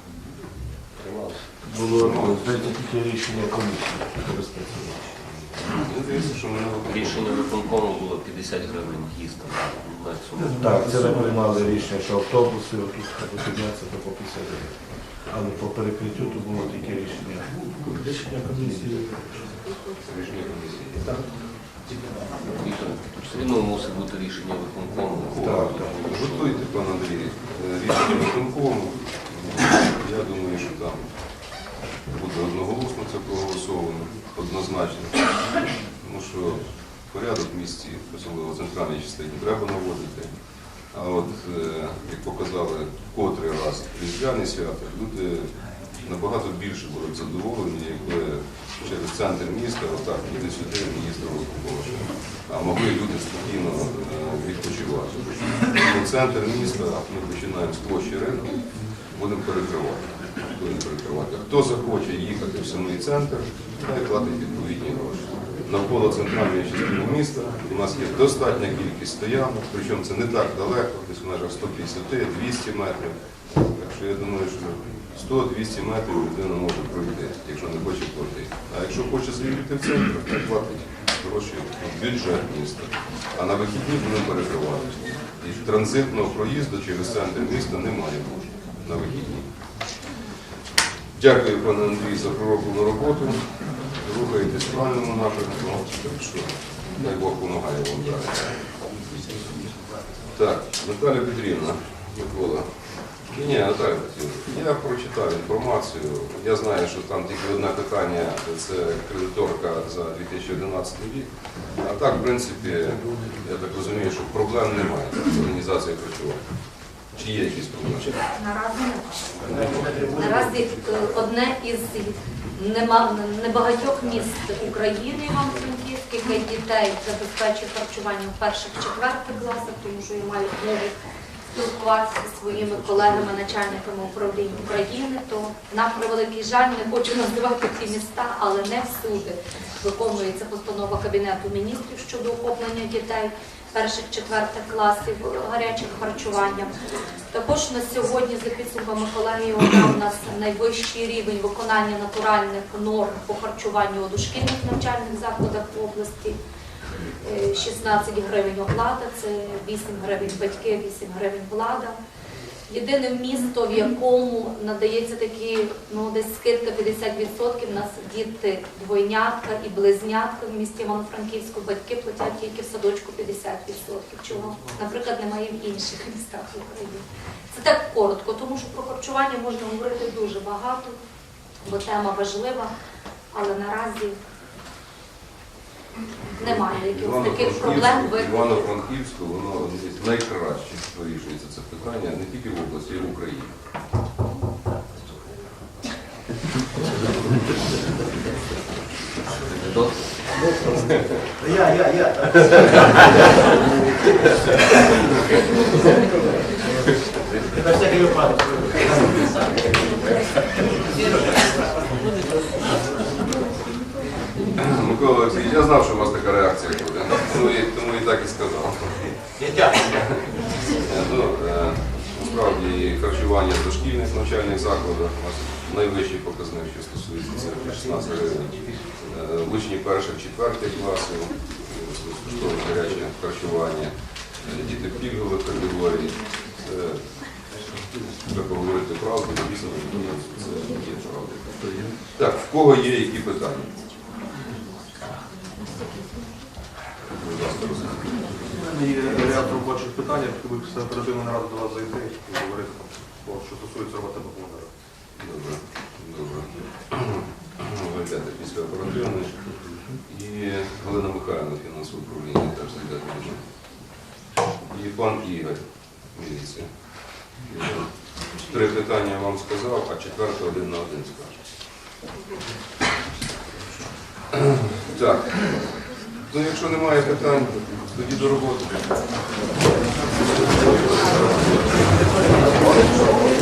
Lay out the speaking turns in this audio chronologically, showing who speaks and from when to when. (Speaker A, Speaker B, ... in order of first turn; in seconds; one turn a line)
Speaker A: 1.0-1.5
Speaker B: 1.6-5.2
Speaker C: 1.9-2.7
Speaker C: 5.3-7.3
Speaker A: 6.8-11.9
Speaker B: 10.4-19.2
Speaker C: 20.0-21.1
Speaker A: 22.6-26.6
Speaker C: 25.3-31.0
Speaker B: 25.4-25.9
Speaker C: 32.1-35.3
Speaker C: 36.0-40.3
Speaker C: 40.9-89.5
Speaker C: 91.2-99.8
Speaker C: 100.3-116.4
Speaker C: 117.1-118.2
Speaker D: 118.3-119.4
Speaker C: 119.5-120.0
Speaker D: 120.1-130.9
Speaker D: 131.5-146.7
Speaker D: 147.3-156.4
Speaker D: 157.2-162.0
Speaker D: 162.7-181.0
Speaker D: 181.6-182.7
Speaker D: 183.3-184.2
Speaker D: 186.4-188.7
Speaker C: 186.4-193.5
Speaker A: 199.5-200.2
Speaker A: 207.3-207.5
Speaker C: 214.6-220.0
Speaker C: 220.7-237.0
Speaker C: 238.3-241.6
Speaker A: 241.6-241.9
Speaker C: 242.1-243.7
Speaker C: 247.1-248.3
Speaker E: 248.7-254.7
Speaker C: 255.2-259.5
Speaker C: 260.1-263.5
Speaker C: 264.7-266.7
Speaker C: 267.4-271.5
Speaker C: 274.3-275.7
Speaker C: 276.2-278.9
Speaker C: 280.4-281.8